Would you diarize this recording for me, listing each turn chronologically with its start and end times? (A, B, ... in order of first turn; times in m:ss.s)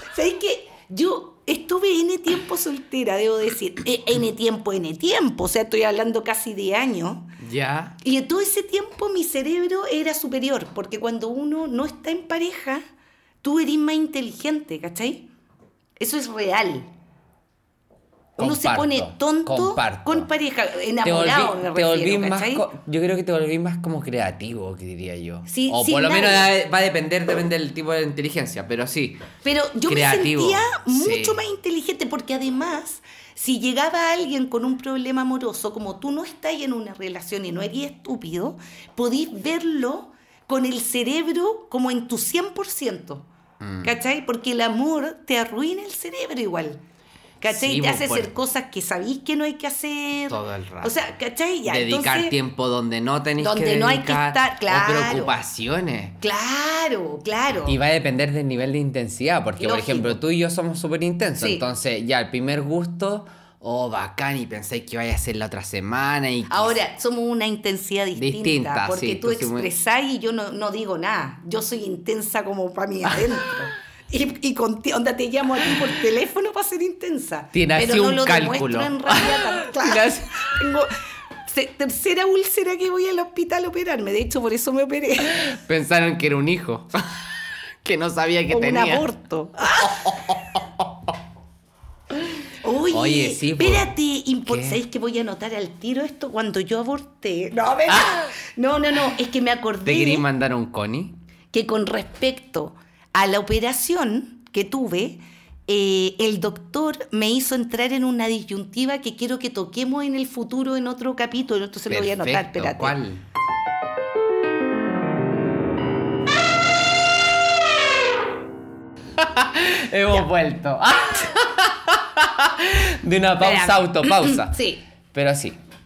0:00.1-0:07.3 A
0:07.4-0:08.0 B
0:08.0-0:12.8 A
0:13.4-0:15.3 A
0:16.0-0:16.9 A
0:18.4-0:20.3 B
0:18.4-0:22.7 A
0:21.0-0:29.2 B
0:25.5-0:26.5 A
0:29.4-0:43.2 A
0:29.8-0:31.4 B
0:43.6-0:44.0 B
0:43.8-0:46.8 A
0:47.4-0:52.3 A
0:47.4-0:48.3 B
0:50.3-0:51.0 B
0:51.6-0:56.2 B
0:53.4-0:55.4 A
0:56.2-0:57.8 A
0:57.6-1:06.8 B
0:59.6-1:00.2 A
1:01.4-1:01.6 A
1:06.5-1:20.9 A
1:08.1-1:09.7 B
1:17.5-1:20.4 B
1:21.4-1:25.4 A
1:25.4-1:27.3 B
1:27.8-1:29.1 B
1:28.5-1:30.2 A
1:29.8-1:31.1 B
1:32.6-1:40.2 A
1:32.9-1:33.9 B
1:34.4-1:34.8 B
1:39.8-1:41.2 B
1:41.5-1:53.0 A
1:51.9-1:53.2 B
1:59.2-2:05.6 B
2:03.4-2:04.8 A